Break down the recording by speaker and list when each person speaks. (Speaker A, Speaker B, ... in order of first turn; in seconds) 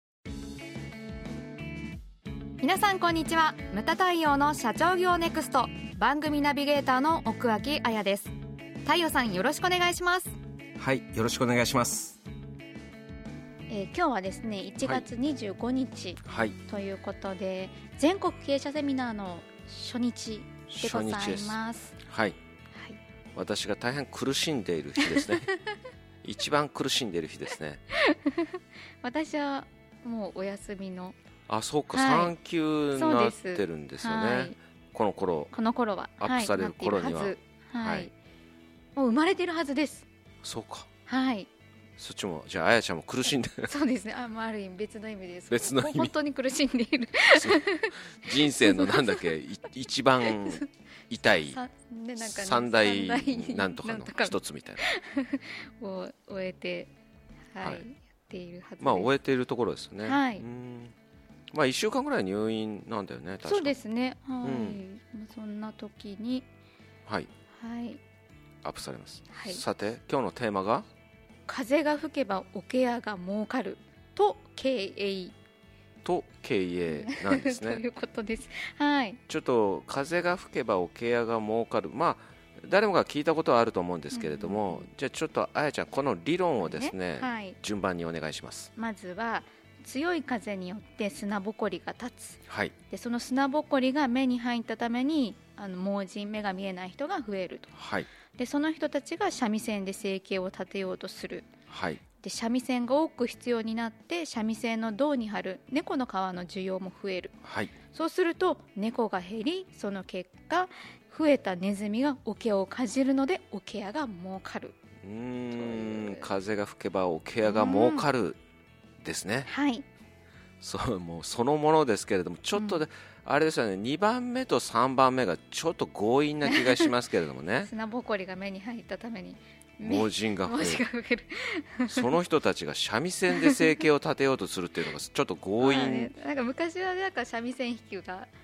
Speaker A: 2.6-8.3, 8.8-10.3, 13.7-22.0, 22.7-23.0, 25.0-25.4, 27.9-31.2, 31.9-32.3, 32.9-34.6, 35.5-38.1, 39.0-40.1, 41.1-41.5, 43.6-49.2, 50.2-50.6, 51.5-56.9, 57.5-59.1, 60.0-60.5, 63.4-66.5, 67.5-68.0, 69.3-69.6, 71.5-75.3, 76.9-79.2, 84.1-84.9, 86.6-87.6, 88.8-97.8, 98.3-101.5, 102.2-107.3, 107.9-114.8, 115.5-116.3, 117.4-118.1, 119.5-119.9, 122.5-122.8, 126.5-126.9, 127.6-132.1, 133.3-133.7, 135.6-138.3
Speaker B: 10.8-12.2, 16.2-16.6, 20.7-22.4, 23.4-25.5, 26.2-27.8, 31.5-35.5, 36.2-38.1, 40.4-40.9, 42.0-43.7, 45.5-46.1, 47.3-51.6, 52.2-54.8, 58.8-60.9, 61.5-63.8, 64.4-64.8, 68.6-70.9, 76.0-77.8, 79.3-88.7, 92.5-92.8, 97.8-98.1, 101.7-102.0, 107.4-107.8, 115.0-118.4, 119.0-119.5, 120.6-127.7, 129.8-130.8, 131.9-136.1